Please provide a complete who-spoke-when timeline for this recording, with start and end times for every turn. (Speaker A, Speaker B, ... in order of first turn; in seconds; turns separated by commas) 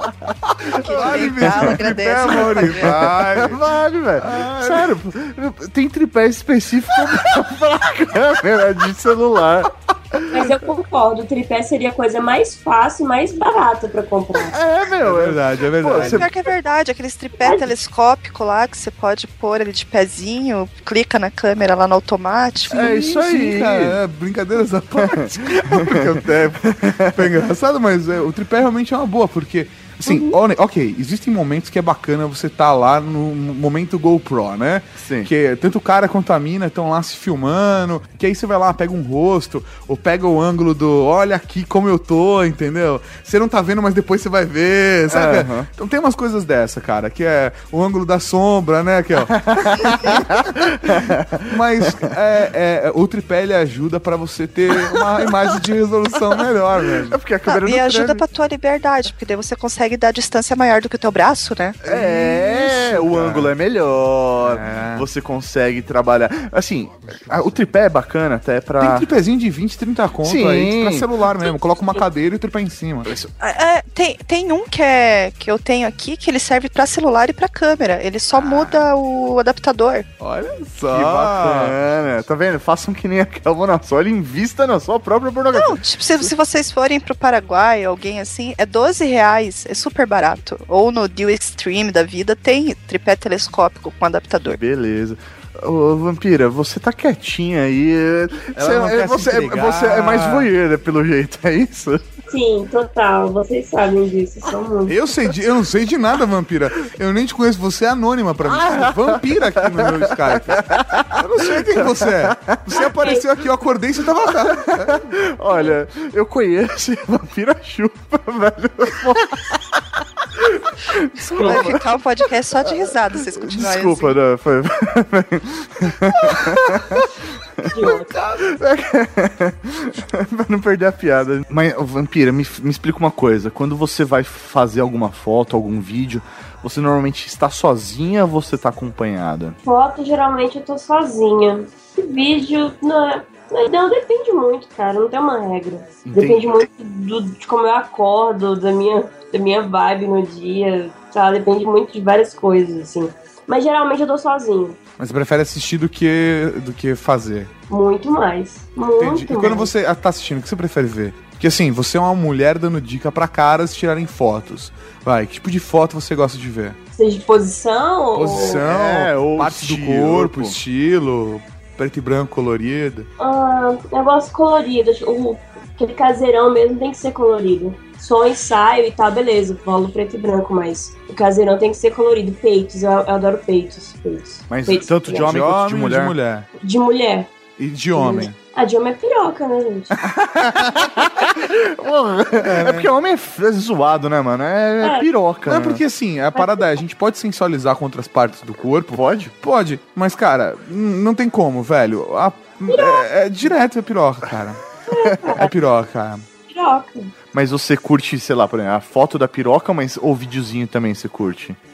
Speaker A: 0.6-3.6, Speaker B: 0.7-2.9, Speaker C: 0.7-1.7, Speaker C: 2.8-10.4, Speaker A: 4.2-4.9, Speaker D: 10.3-14.6, Speaker C: 14.5-16.3, Speaker A: 15.0-16.2, Speaker B: 15.9-22.8, Speaker D: 17.4-17.7, Speaker A: 22.7-57.2, Speaker C: 22.7-24.0, Speaker C: 24.9-26.1, Speaker C: 26.6-27.2, Speaker D: 30.1-30.3, Speaker C: 35.0-35.3, Speaker C: 45.1-45.7, Speaker C: 49.3-51.4, Speaker C: 57.1-58.2, Speaker B: 57.5-61.8, Speaker A: 61.8-63.5, Speaker C: 61.8-69.1, Speaker A: 64.4-65.1, Speaker A: 68.8-73.1, Speaker C: 70.2-71.1, Speaker C: 73.0-73.3, Speaker B: 73.4-80.0, Speaker A: 78.3-78.8, Speaker A: 80.2-81.8, Speaker C: 80.9-85.8, Speaker B: 85.5-94.6, Speaker C: 94.5-102.1, Speaker A: 98.5-100.5, Speaker D: 102.3-105.0, Speaker A: 104.9-115.0, Speaker C: 108.5-112.7, Speaker D: 112.7-113.3, Speaker C: 114.2-119.4, Speaker C: 120.6-121.8, Speaker B: 121.2-124.2, Speaker D: 121.4-121.7, Speaker C: 123.3-127.1, Speaker A: 126.2-126.9, Speaker D: 127.7-128.1, Speaker A: 127.8-128.4, Speaker C: 128.4-139.6, Speaker D: 139.6-154.8, Speaker C: 146.0-146.4, Speaker A: 155.0-157.5, Speaker D: 157.7-159.7, Speaker A: 159.0-166.8, Speaker D: 166.9-168.6, Speaker A: 168.1-173.1, Speaker C: 168.6-170.6, Speaker D: 173.2-185.3, Speaker C: 184.5-186.2, Speaker A: 185.2-186.5, Speaker D: 186.6-187.3, Speaker A: 187.6-188.3, Speaker D: 187.9-190.0, Speaker C: 190.0-195.8, Speaker A: 192.4-192.9, Speaker D: 194.8-195.1, Speaker A: 195.4-204.6, Speaker C: 198.9-199.3, Speaker D: 202.7-203.0, Speaker D: 204.9-205.5, Speaker A: 205.2-206.2, Speaker D: 206.4-207.1, Speaker C: 207.3-211.6